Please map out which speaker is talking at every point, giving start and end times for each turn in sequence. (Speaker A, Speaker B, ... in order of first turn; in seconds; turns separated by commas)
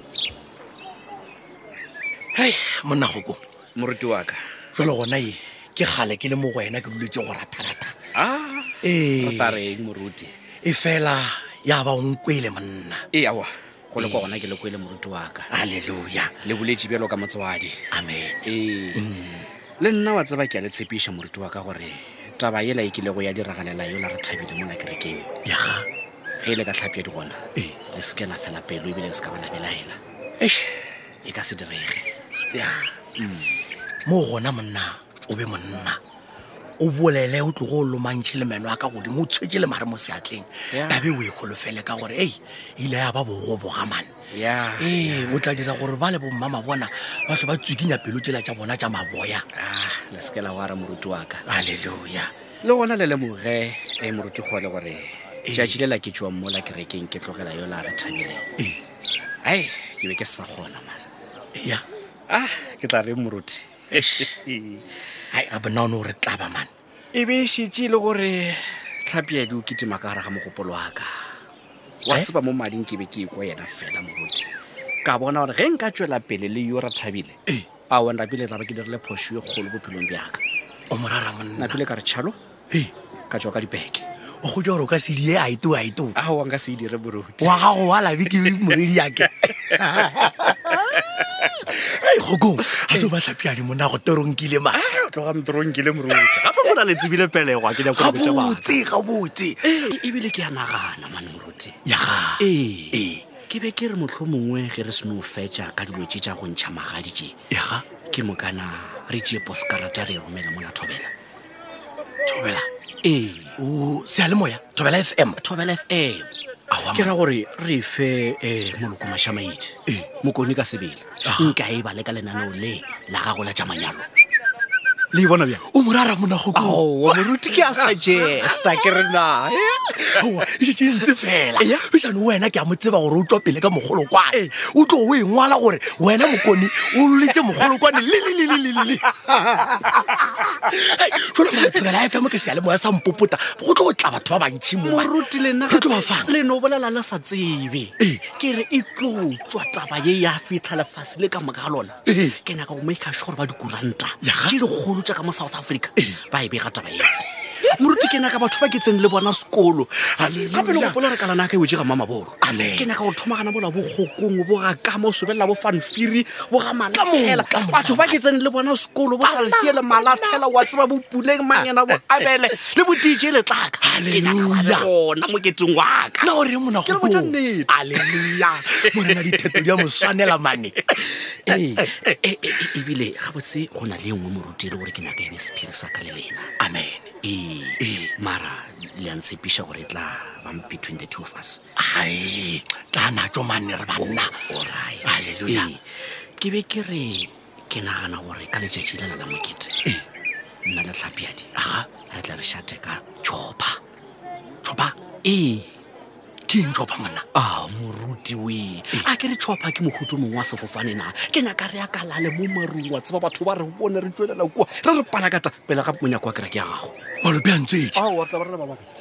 Speaker A: 2.3-3.4, Speaker B: 3.8-4.4, Speaker A: 4.7-8.0, Speaker B: 8.1-10.3, Speaker A: 8.8-9.6, Speaker A: 10.6-13.1, Speaker B: 13.1-15.5, Speaker A: 14.0-14.3, Speaker A: 15.5-16.4, Speaker B: 16.4-17.8, Speaker A: 17.9-19.4, Speaker B: 18.4-19.1, Speaker B: 19.8-25.3, Speaker A: 25.4-25.9, Speaker B: 26.4-30.0, Speaker A: 30.4-30.8, Speaker B: 31.2-32.1, Speaker A: 32.5-32.9, Speaker B: 33.2-33.6, Speaker A: 34.0-36.0, Speaker A: 36.8-44.1, Speaker B: 40.7-41.1, Speaker B: 44.3-45.4, Speaker A: 44.8-49.5, Speaker B: 49.5-51.4, Speaker A: 51.5-52.3, Speaker B: 52.6-58.4, Speaker A: 55.5-55.8, Speaker B: 59.4-61.1, Speaker A: 61.5-61.8, Speaker B: 62.3-64.8, Speaker A: 65.3-66.7, Speaker B: 67.1-71.1, Speaker B: 72.0-74.5, Speaker B: 75.0-80.4, Speaker A: 80.9-81.8, Speaker B: 81.6-82.4, Speaker B: 83.3-84.0, Speaker A: 84.4-86.2, Speaker B: 86.2-87.6, Speaker A: 87.4-90.4, Speaker B: 89.7-91.0, Speaker A: 91.6-94.8, Speaker B: 94.7-98.8, Speaker A: 97.9-99.8, Speaker B: 99.6-101.8, Speaker A: 101.8-103.2, Speaker B: 102.4-107.4, Speaker A: 107.5-107.8, Speaker B: 107.9-111.1, Speaker A: 112.2-112.7, Speaker B: 113.0-113.5, Speaker A: 113.6-115.4, Speaker B: 115.4-116.3, Speaker A: 116.7-117.1, Speaker B: 116.9-124.1, Speaker A: 121.2-121.6, Speaker B: 125.1-125.6, Speaker A: 125.6-127.4, Speaker B: 126.5-130.2, Speaker A: 130.1-146.3, Speaker B: 131.6-131.8, Speaker B: 144.8-176.3, Speaker A: 148.0-148.2, Speaker A: 152.1-152.4, Speaker A: 154.2-154.6, Speaker A: 160.1-161.1, Speaker A: 162.4-162.9, Speaker A: 166.9-168.2, Speaker A: 173.8-174.9, Speaker A: 176.2-182.0, Speaker B: 176.8-180.0, Speaker B: 181.5-186.5, Speaker A: 186.6-187.2, Speaker B: 187.2-191.6, Speaker A: 187.8-188.1, Speaker A: 191.8-194.5, Speaker B: 194.0-195.9, Speaker A: 195.0-195.7, Speaker B: 196.4-199.8, Speaker B: 200.7-203.8, Speaker A: 201.5-201.9, Speaker A: 204.6-205.0, Speaker B: 205.2-205.8, Speaker A: 206.5-207.2, Speaker B: 207.3-217.0, Speaker A: 217.2-218.0, Speaker B: 217.9-218.9